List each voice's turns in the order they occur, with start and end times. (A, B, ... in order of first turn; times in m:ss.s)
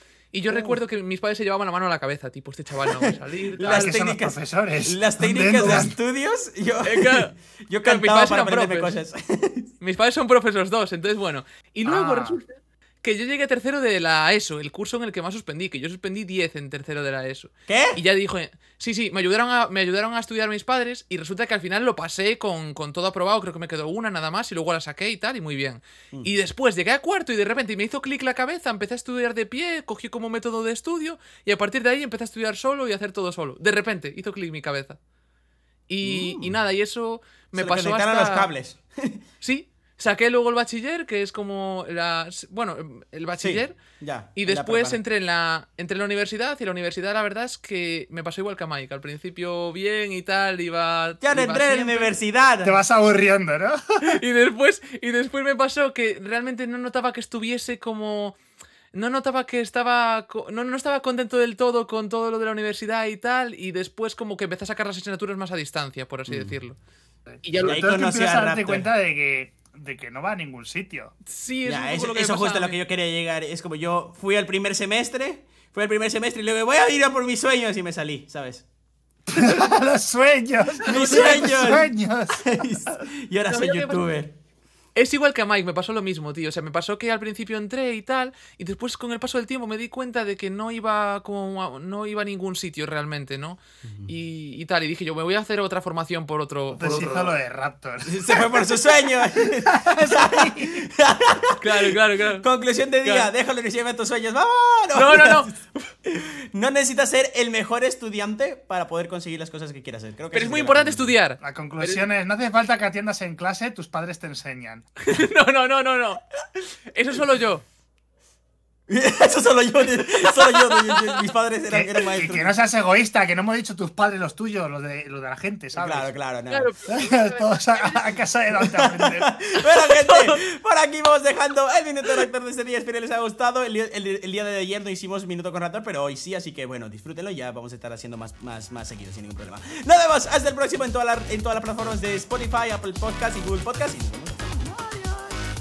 0:00.3-0:04.0 A
0:00.5-0:00.8 B
0:02.9-0:09.7 B
0:03.6-0:06.0 C
0:05.6-0:05.9 A
0:06.8-0:09.0 A
0:09.8-0:35.0 A
0:11.8-0:12.4 C
0:17.7-0:18.0 B
0:35.9-0:38.5 A
0:36.0-0:36.5 B
0:37.5-0:39.2 B
0:39.4-0:43.8 A
0:43.4-0:45.0 B
0:44.4-0:52.1 A
0:51.2-0:52.7 B
0:52.6-0:53.8 C
0:54.0-0:58.4 A
0:58.9-1:06.8 A
1:06.2-1:06.5 B
1:07.3-1:11.1 C
1:07.4-1:07.8 A
1:07.6-1:08.9 B
1:11.2-1:12.8 A
1:11.6-1:18.6 B
1:19.3-1:22.7 C
1:20.8-1:24.4 B
1:23.5-1:24.1 A
1:25.0-1:37.4 A
1:33.8-1:34.1 B
1:36.7-1:40.8 C
1:38.0-1:51.1 B
1:41.6-1:42.4 A
1:43.0-1:43.3 A
1:44.9-1:45.5 A
1:50.3-1:52.0 A
1:51.4-1:54.8 C
1:55.0-1:56.2 A
1:56.9-1:57.6 A
1:58.9-2:02.6 B
2:00.2-2:01.2 A
2:01.7-2:06.1 C
2:05.7-2:06.7 B
2:06.5-2:08.3 A
2:06.9-2:09.3 C
2:08.8-2:25.4 B
2:09.9-2:10.4 A